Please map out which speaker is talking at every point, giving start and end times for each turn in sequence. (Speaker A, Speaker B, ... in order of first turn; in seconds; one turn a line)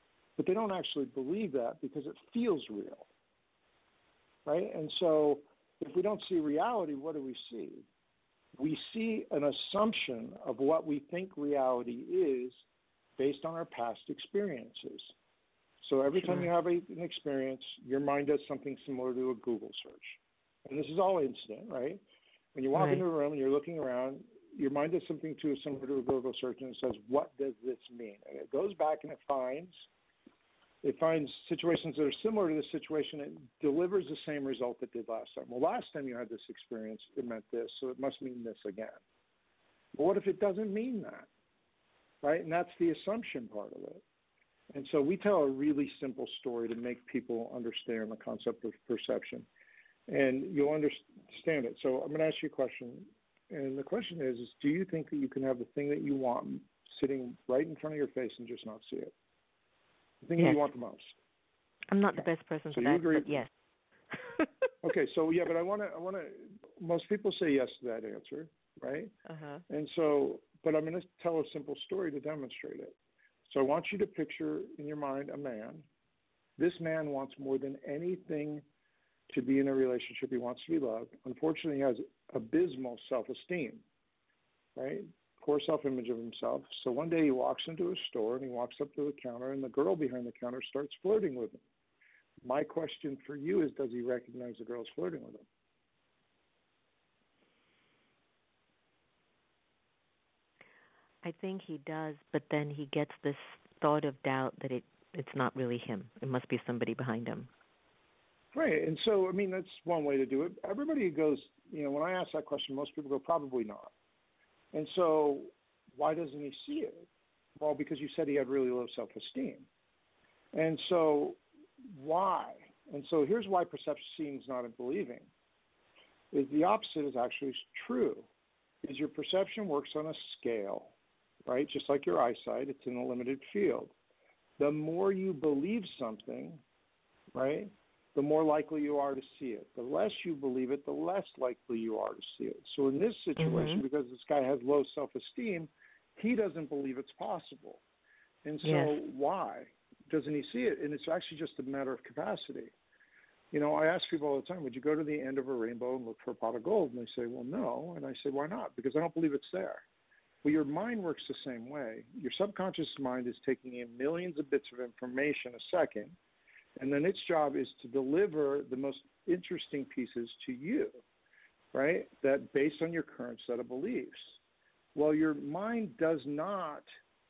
Speaker A: 0.4-3.1
Speaker A: 4.5-7.9
Speaker A: 8.6-12.6
Speaker A: 13.2-15.1
Speaker A: 15.8-22.0
Speaker A: 22.6-29.7
Speaker B: 22.7-23.0
Speaker A: 30.8-39.0
Speaker A: 39.9-41.3
Speaker A: 42.2-44.0
Speaker A: 44.7-49.5
Speaker A: 50.1-59.1
Speaker A: 60.2-61.2
Speaker B: 60.4-60.6
Speaker B: 61.9-63.5
Speaker A: 62.7-63.5
Speaker B: 64.1-64.5
Speaker A: 64.8-69.1
Speaker B: 69.3-69.6
Speaker A: 69.7-72.9
Speaker A: 73.5-75.9
Speaker A: 76.6-78.6
Speaker A: 79.3-83.8
Speaker A: 84.8-91.6
Speaker A: 92.4-95.5
Speaker B: 101.2-107.5
Speaker A: 108.5-113.9
Speaker A: 114.7-117.1
Speaker A: 117.6-119.7
Speaker A: 120.5-125.3
Speaker A: 126.3-128.3
Speaker A: 128.8-130.9
Speaker A: 131.5-133.9
Speaker A: 134.6-136.6
Speaker A: 137.3-147.8
Speaker B: 143.4-143.8
Speaker A: 148.4-152.7
Speaker B: 148.6-148.9
Speaker A: 153.5-159.8
Speaker A: 160.4-166.2
Speaker A: 166.8-171.0
Speaker A: 171.7-174.4
Speaker A: 174.9-176.9